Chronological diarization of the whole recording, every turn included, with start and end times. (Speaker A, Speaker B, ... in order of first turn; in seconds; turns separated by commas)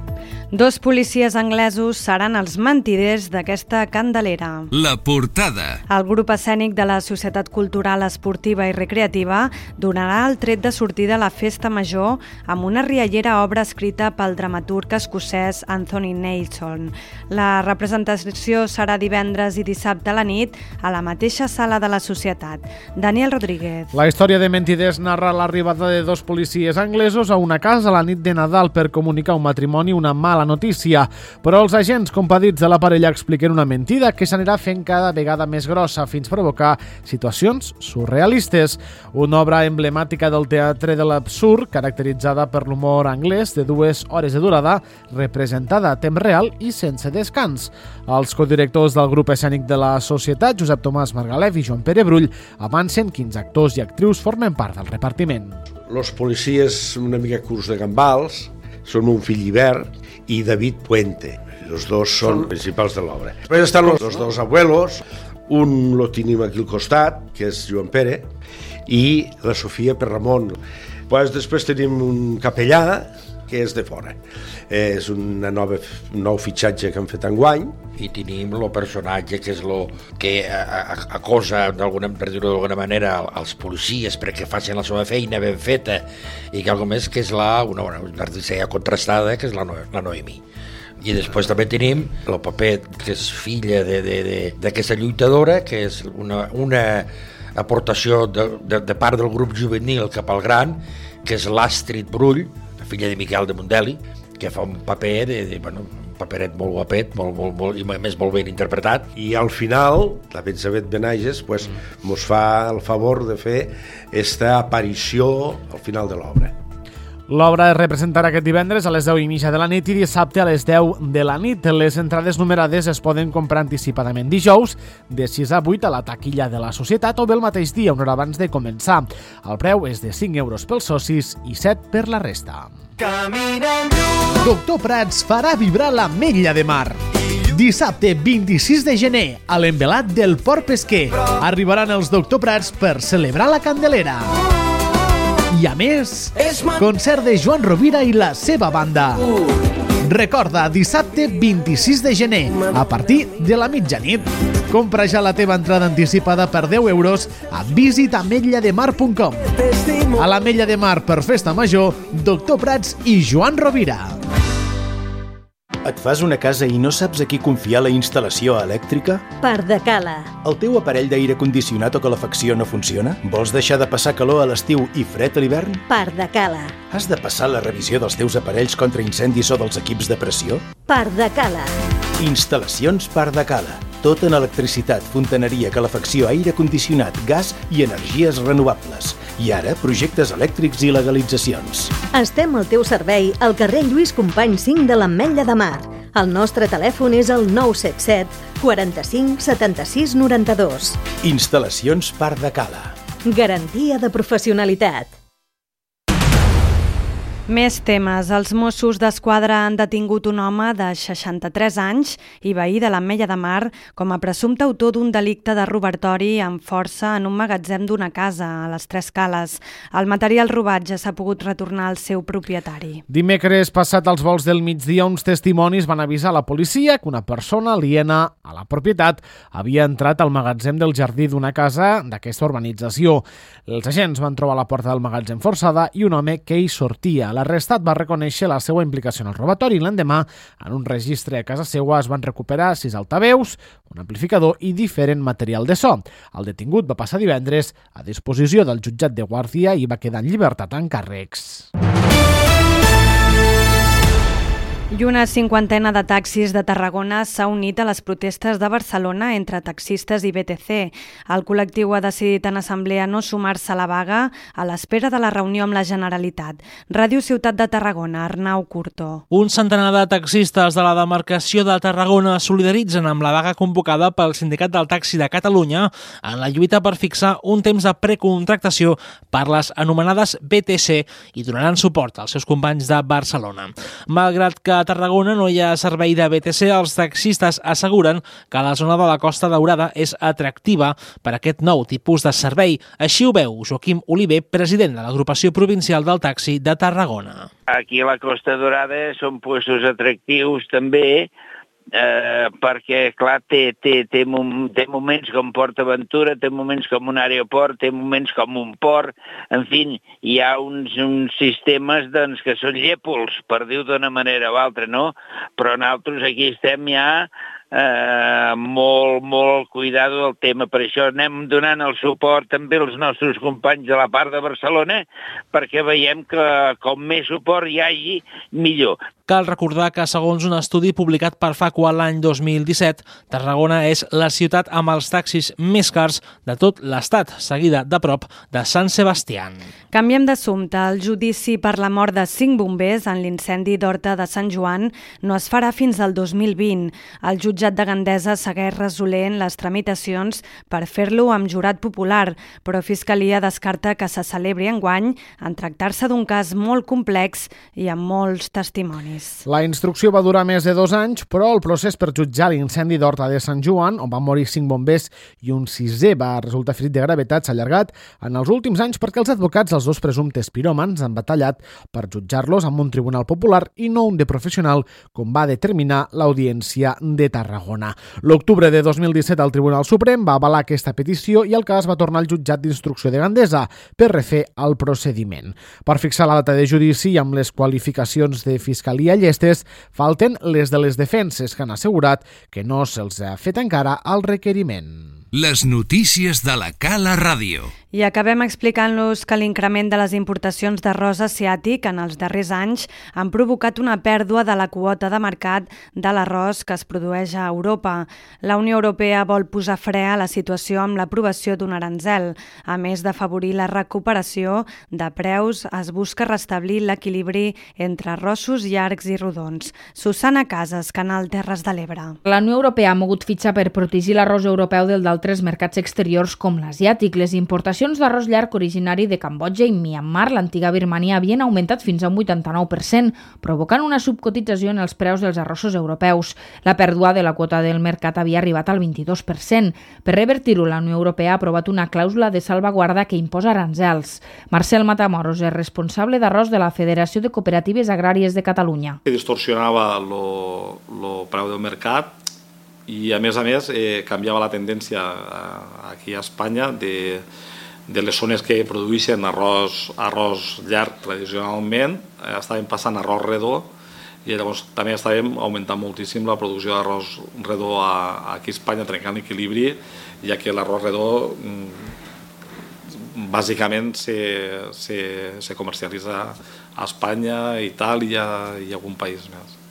Speaker A: 0.5-4.7, Speaker B: 4.7-5.8, Speaker A: 5.9-23.9, Speaker C: 23.9-55.6, Speaker D: 55.9-68.3, Speaker D: 68.9-74.2, Speaker D: 74.7-77.8, Speaker E: 77.9-90.4, Speaker E: 91.0-109.1, Speaker D: 109.2-116.6, Speaker C: 117.3-132.8, Speaker C: 134.4-137.0, Speaker C: 137.5-144.3, Speaker C: 145.5-149.3, Speaker C: 150.1-159.4, Speaker C: 160.2-164.2, Speaker F: 165.8-169.2, Speaker G: 169.4-170.3, Speaker F: 170.4-175.8, Speaker G: 175.9-176.7, Speaker F: 176.9-180.7, Speaker G: 180.9-181.7, Speaker F: 182.2-192.0, Speaker G: 192.1-201.0, Speaker F: 201.2-202.9, Speaker G: 203.3-205.1, Speaker A: 207.5-223.0, Speaker C: 223.1-251.7, Speaker A: 254.9-269.2, Speaker H: 269.3-297.5, Speaker I: 297.7-301.3, Speaker I: 301.9-329.0, Speaker H: 329.3-339.7, Speaker A: 339.9-359.4, Speaker C: 359.4-395.1, Speaker B: 395.3-397.7, Speaker A: 397.9-422.2, Speaker J: 422.2-449.0, Speaker K: 449.1-452.1, Speaker K: 452.9-457.2, Speaker K: 457.9-463.7, Speaker K: 464.2-471.9, Speaker K: 473.1-479.6